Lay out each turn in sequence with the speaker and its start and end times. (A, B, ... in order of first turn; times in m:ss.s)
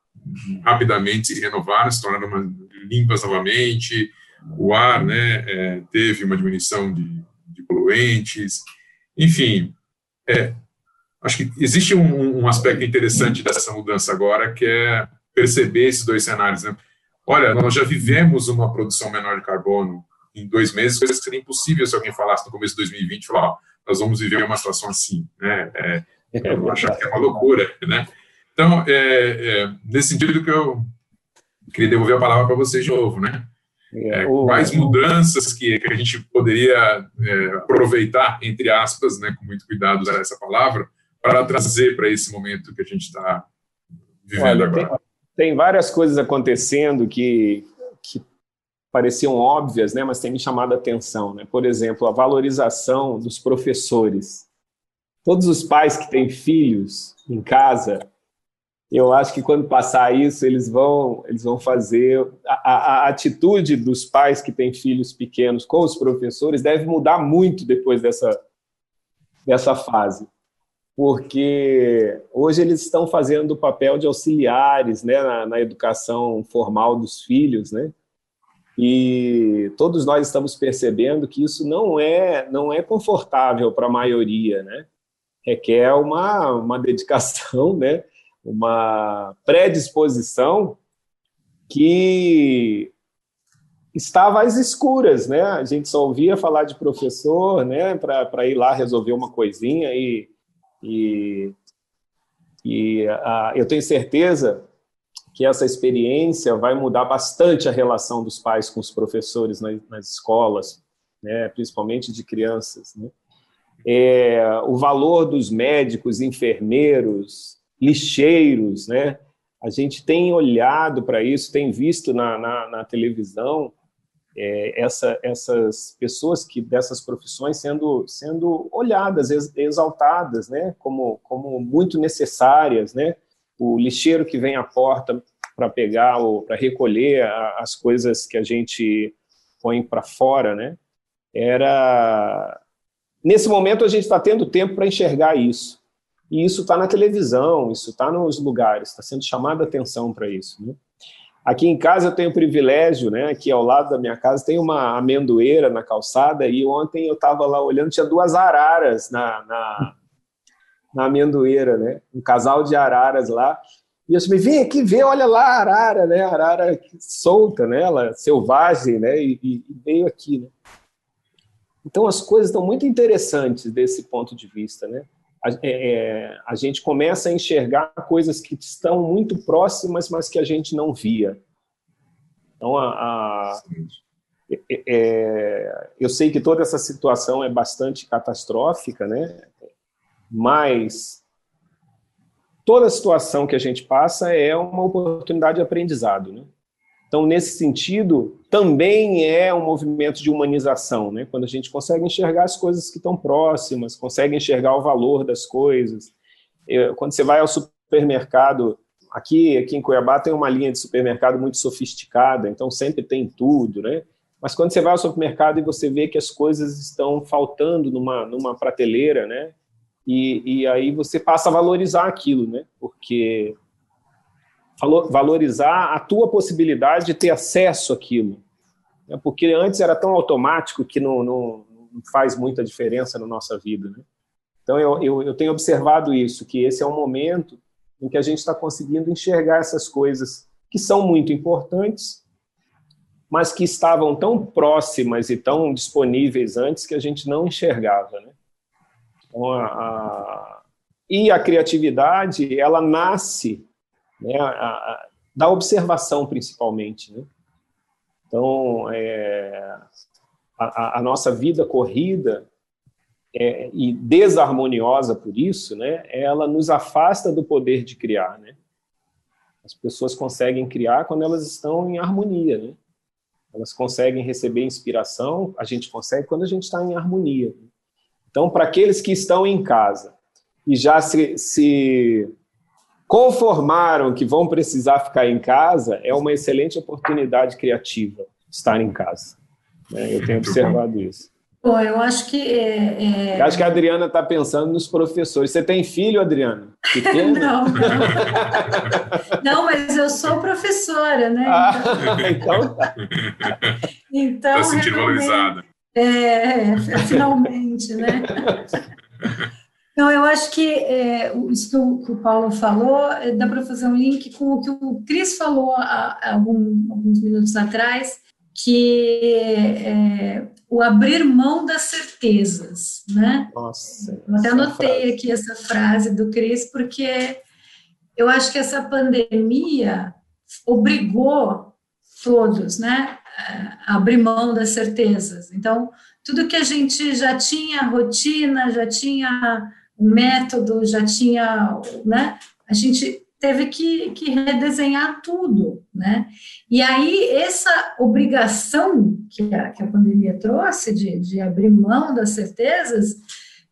0:00.2-0:08.6 A
0:09.2-0:09.8 A
0:10.3-0:10.6 A
0:11.2-0:30.9 A
0:26.3-0:27.4 B
0:31.7-0:33.5 A
0:33.9-0:35.0 B
0:34.1-0:43.5 A
0:44.2-0:45.0 A
0:44.4-0:48.2 B
0:48.9-0:54.5 B
0:55.2-0:58.0 B
0:58.9-1:08.4 B
1:09.5-1:10.3 B
1:11.0-1:17.9 B
1:18.8-1:24.9 B
1:25.4-1:30.8 B
1:31.7-1:32.9 B
1:33.9-1:40.3 B
1:40.8-1:41.6 B
1:42.6-1:44.7 B
1:45.4-1:53.1 B
1:53.8-2:03.7 B
2:04.4-2:20.8 B
2:21.3-2:22.6 B
2:23.2-2:30.8 B
2:31.4-2:40.0 B
2:40.9-2:50.5 B
2:51.8-3:01.4 B
3:02.6-3:03.6 B
3:04.5-3:09.5 B
3:10.3-3:11.2 B
3:12.7-3:16.5 B
3:17.1-3:26.1 B
3:26.7-3:39.5 B
3:40.1-3:43.6 B
3:44.8-3:48.4 B
3:49.1-3:54.0 B
3:54.7-4:02.2 B
4:03.3-4:08.3 B
4:09.3-4:10.6 B
4:11.1-4:13.7 B
4:14.2-4:17.3 B
4:18.3-4:19.8 B
4:20.6-4:22.5 B
4:23.3-4:28.6 B
4:29.6-4:32.8 B
4:33.5-4:37.7 B
4:38.3-4:40.2 B
4:40.7-4:42.3 B
4:43.1-4:49.4 B
4:49.9-4:51.3 B
4:50.2-4:50.8 A
4:51.6-4:53.8 C
4:53.4-4:59.1 B
4:57.0-4:58.8 C
4:57.8-4:59.0 A
4:59.4-5:02.2 C
5:01.5-5:02.9 B
5:02.0-5:02.4 A
5:03.0-5:03.8 A
5:04.1-5:08.6 C
5:04.5-5:05.6 A
5:10.0-5:27.4 C
5:23.5-5:25.1 B
5:28.2-5:53.2 C